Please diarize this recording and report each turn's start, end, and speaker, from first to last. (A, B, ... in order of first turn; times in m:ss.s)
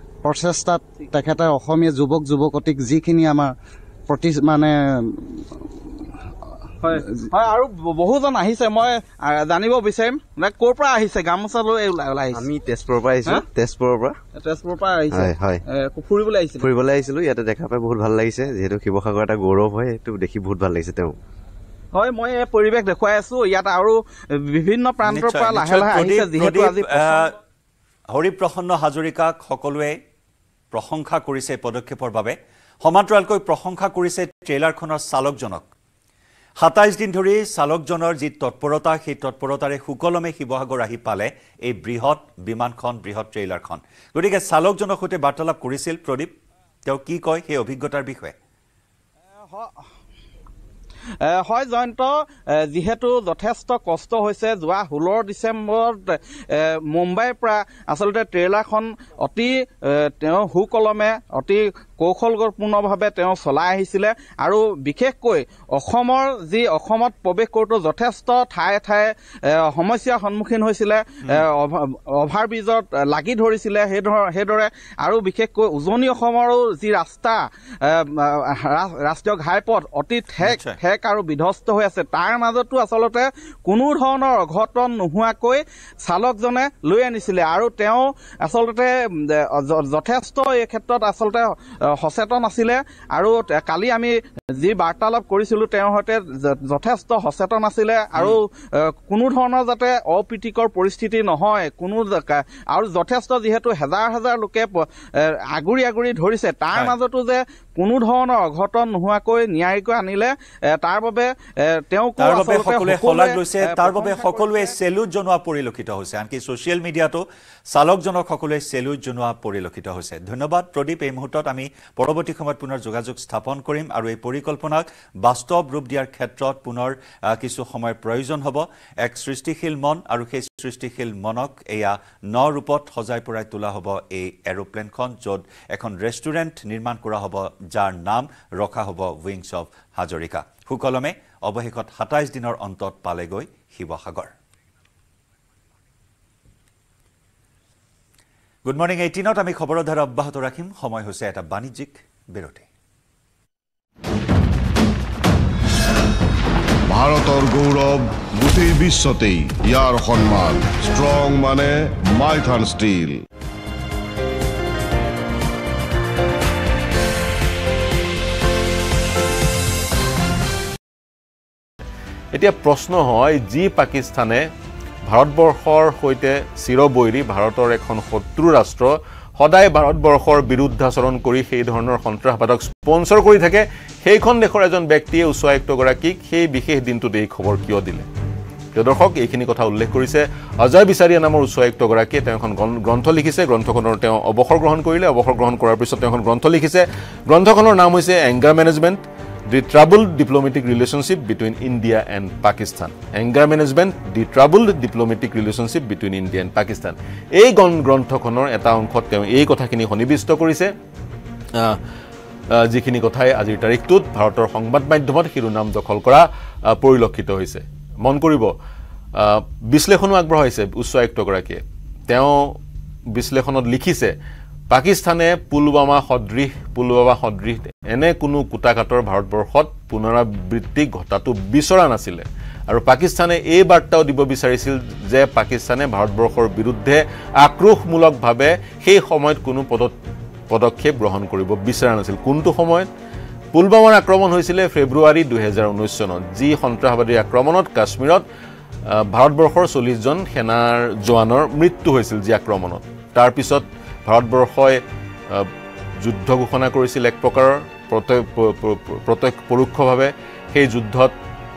0:00.2-0:03.5 A
0:04.1-0:05.6 A
0:06.8-0:12.4 B
0:12.3-0:14.2 C
0:14.4-0:16.7 B
0:15.1-0:15.6 C
0:16.6-0:21.2 C
0:21.9-0:27.2 B
0:25.1-0:27.3 D
0:28.1-0:30.0 D
0:30.7-0:35.7 D
0:36.6-0:46.3 D
0:46.8-0:48.4 D
0:49.4-0:49.9 B
0:51.2-1:54.7 B
1:20.4-1:20.8 D
1:52.2-2:24.3 D
2:28.6-2:32.6 D
2:36.9-2:43.2 E
2:52.3-2:54.4 F
2:55.1-3:08.0 F
3:08.7-3:30.7 F
3:31.5-3:31.8 F
3:32.5-3:38.5 F
3:39.1-3:42.6 F
3:43.1-3:44.1 F
3:44.7-4:00.0 F
4:00.5-4:02.9 F
4:03.5-4:08.2 F
4:08.9-4:21.2 F